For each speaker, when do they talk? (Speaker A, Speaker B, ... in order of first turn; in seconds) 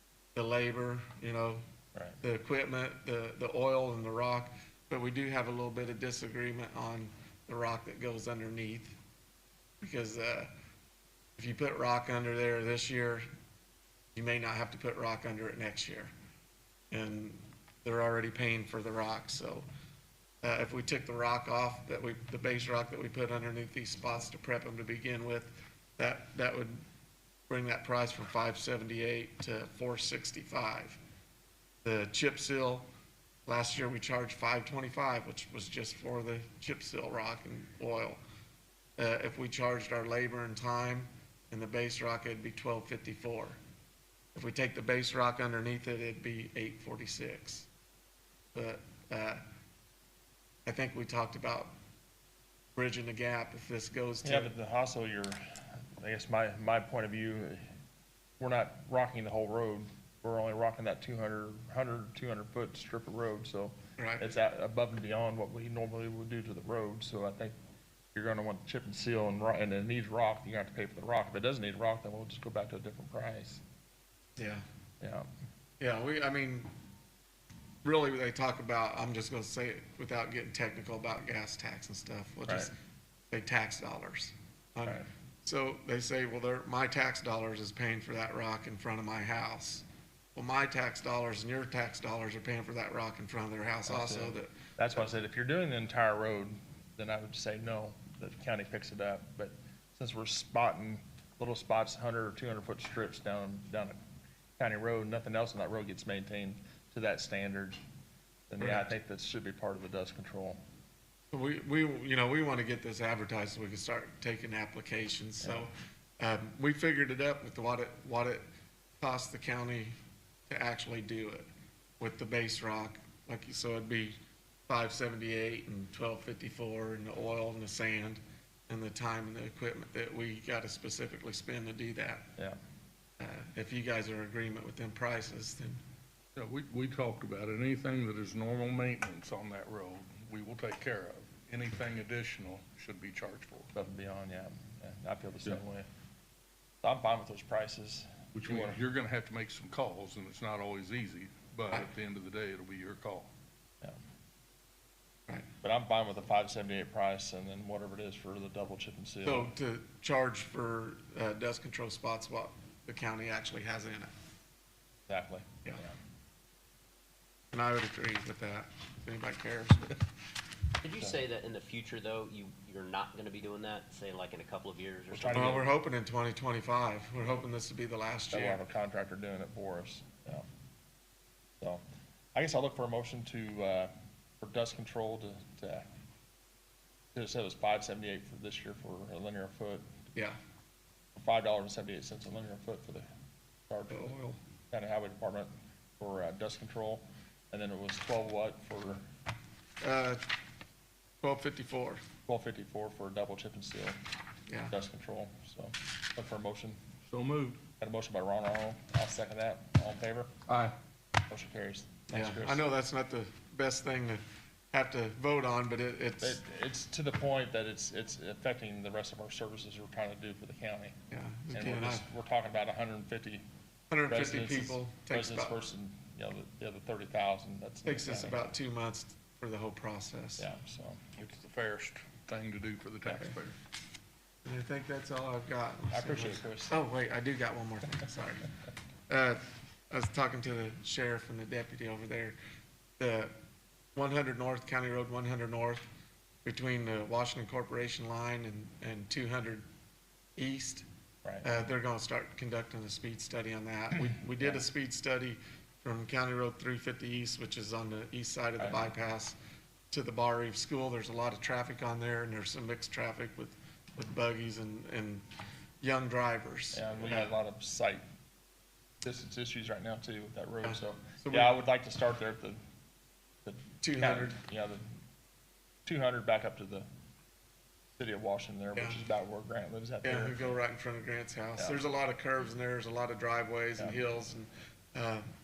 Speaker A: 0.3-1.6, 2.2-8.9, 9.8-10.5, 11.4-13.3, 14.1-16.1, 16.9-19.6, 20.4-26.8, 27.5-31.0, 31.8-32.9, 33.5-38.2, 39.0-43.6, 44.3-47.7, 48.5-49.4, 50.6-51.7, 52.7-54.5, 64.0-64.2, 74.4-74.6, 75.8-76.7, 77.8-82.7, 83.3-95.1, 108.6-108.9, 111.3-118.4, 119.0-119.9, 120.5-121.5, 122.0-132.3, 133.2-135.8, 159.2-164.1, 167.5-170.0, 175.3-178.6, 193.9-194.4, 199.8-200.2, 201.2-202.0, 204.5-204.7, 212.1-216.4, 221.1-222.0, 223.9-225.5, 227.8-230.4, 234.4-238.5, 239.1-242.3, 243.0-243.3, 243.9-245.8, 246.4-249.7, 250.4-250.8, 251.4-259.4, 259.9-265.2, 265.8-267.3, 270.6-271.6, 273.8-274.4, 280.0-285.2
Speaker B: 54.2-57.6, 58.4-67.5, 68.1-73.6, 75.0-75.3, 82.5-82.7, 93.9-104.0, 104.6-107.8, 108.5-110.6, 143.7-145.9, 146.8-148.8, 155.6-159.5, 165.1-165.9, 175.1-175.7, 178.3-180.4, 182.3-185.8, 187.1-189.8, 191.1-193.0, 193.7-194.2, 194.7-199.0, 202.3-204.0, 204.7-206.8, 207.8-210.3, 211.3-212.7, 216.2-220.9, 221.5-223.4, 224.1-228.5, 230.4-231.0, 235.9-236.8, 251.2-251.6, 258.6-258.9, 266.7-268.0, 269.0-272.6, 273.4-274.9, 275.9-276.9, 278.0-280.5, 281.6-281.8
Speaker C: 136.3-143.7, 148.3-153.3, 207.1-207.6, 210.5-210.7, 231.2-233.5
Speaker D: 170.8-175.7